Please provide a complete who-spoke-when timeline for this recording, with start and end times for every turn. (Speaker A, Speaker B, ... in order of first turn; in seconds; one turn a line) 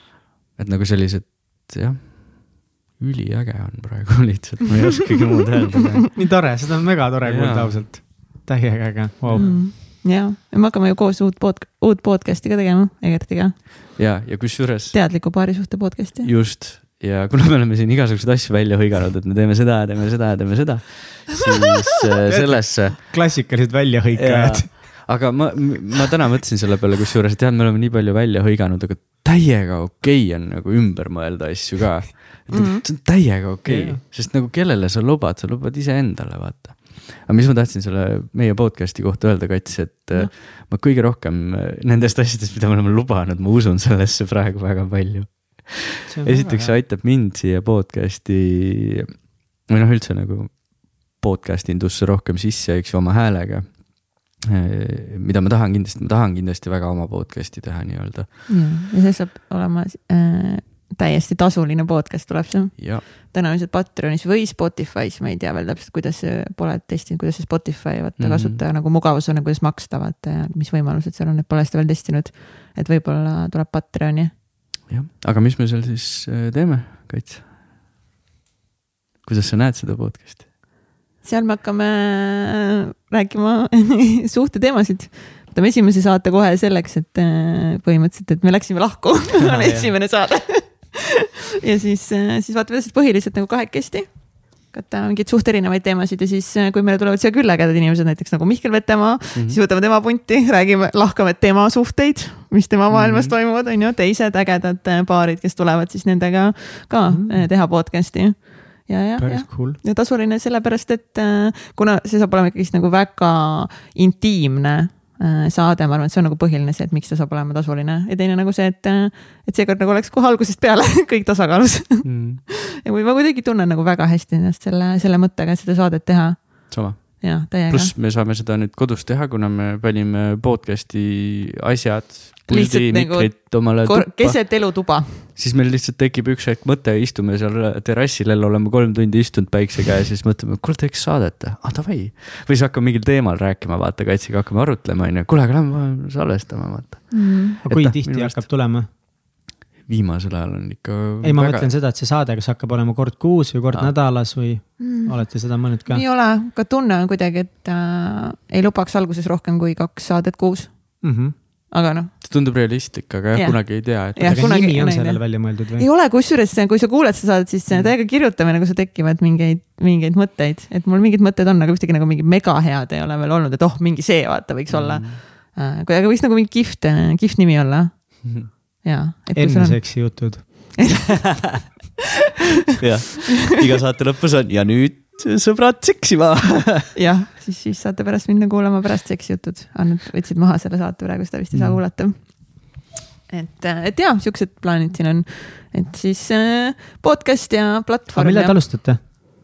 Speaker A: 0.6-6.1
Speaker B: 6.1-9.6
Speaker A: 7.2-7.9
Speaker A: 9.2-9.6
Speaker C: 9.3-14.0
Speaker A: 13.9-15.0
Speaker C: 14.9-16.3
Speaker A: 16.2-23.0
Speaker B: 22.3-24.7
Speaker A: 24.1-58.3
Speaker C: 32.5-32.8
Speaker B: 33.6-34.0
Speaker B: 46.1-46.8
Speaker C: 58.5-74.3
Speaker A: 62.8-63.0
Speaker A: 68.2-68.6
Speaker A: 74.9-77.5
Speaker A: 79.2-80.5
Speaker C: 81.2-91.1
Speaker A: 89.4-89.9
Speaker C: 91.6-127.9
Speaker A: 99.3-99.6
Speaker A: 102.9-103.3
Speaker B: 107.1-107.5
Speaker B: 109.2-109.8
Speaker A: 122.0-122.4
Speaker A: 126.7-149.0
Speaker C: 132.5-135.2
Speaker C: 147.1-147.6
Speaker B: 147.6-148.9
Speaker A: 149.8-151.7
Speaker B: 151.2-156.0
Speaker C: 154.8-161.0
Speaker B: 161.0-161.3
Speaker C: 161.7-162.2
Speaker A: 162.2-164.7
Speaker C: 163.3-181.4
Speaker B: 164.2-165.8
Speaker A: 174.7-175.2
Speaker B: 179.3-180.7
Speaker A: 182.8-186.9
Speaker C: 186.9-199.1
Speaker B: 191.5-191.8
Speaker B: 198.1-199.0